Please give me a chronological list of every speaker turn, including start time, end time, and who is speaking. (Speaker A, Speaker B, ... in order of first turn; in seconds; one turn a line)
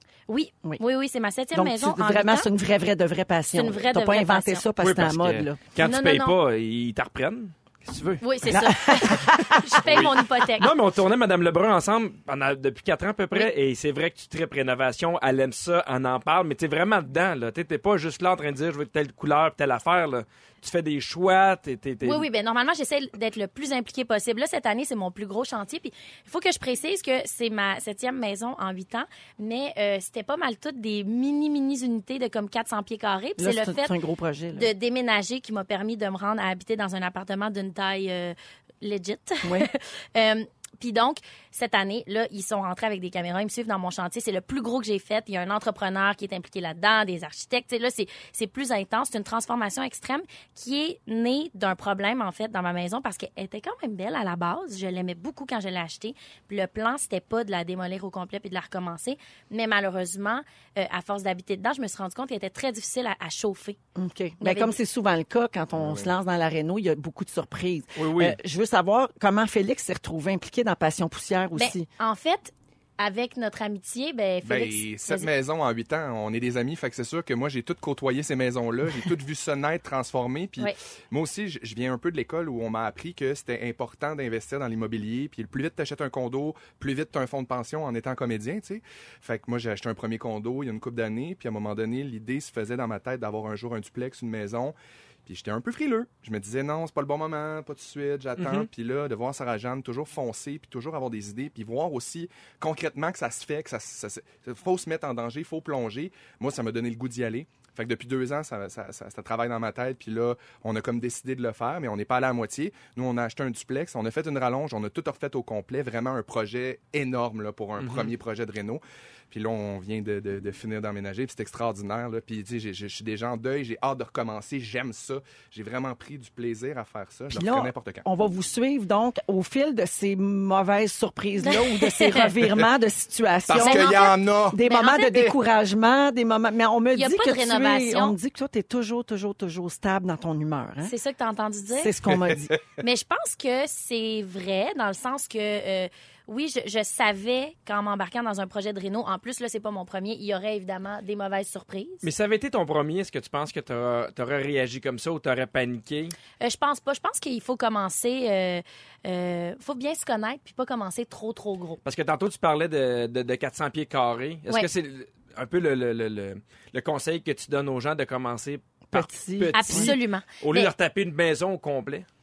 Speaker A: 0.3-2.5
Speaker B: 1.5-5.6
Speaker A: 3.5-4.6
Speaker C: 4.8-8.6
Speaker D: 5.1-5.4
Speaker A: 5.8-6.4
Speaker A: 8.2-10.7
Speaker B: 8.5-9.9
Speaker C: 9.8-22.2
Speaker A: 22.0-33.9
Speaker B: 33.4-34.7
Speaker A: 34.5-63.8
Speaker B: 39.4-39.7
Speaker B: 64.0-71.9
Speaker A: 64.4-64.8
Speaker D: 65.8-66.1
Speaker C: 68.0-68.4
Speaker A: 71.5-75.3
Speaker D: 74.4-94.7
Speaker D: 95.2-128.0
Speaker C: 98.4-98.7
Speaker C: 117.8-118.1
Speaker B: 127.3-134.0
Speaker A: 131.4-132.3
Speaker D: 133.5-134.6
Speaker A: 133.6-135.3
Speaker B: 134.5-140.9
Speaker A: 136.9-138.2
Speaker A: 140.8-141.9
Speaker B: 141.7-142.6
Speaker D: 142.1-142.5
Speaker A: 142.8-152.1
Speaker C: 152.0-156.1
Speaker A: 156.4-161.8
Speaker C: 161.8-172.1
Speaker B: 168.9-169.9
Speaker A: 169.5-170.7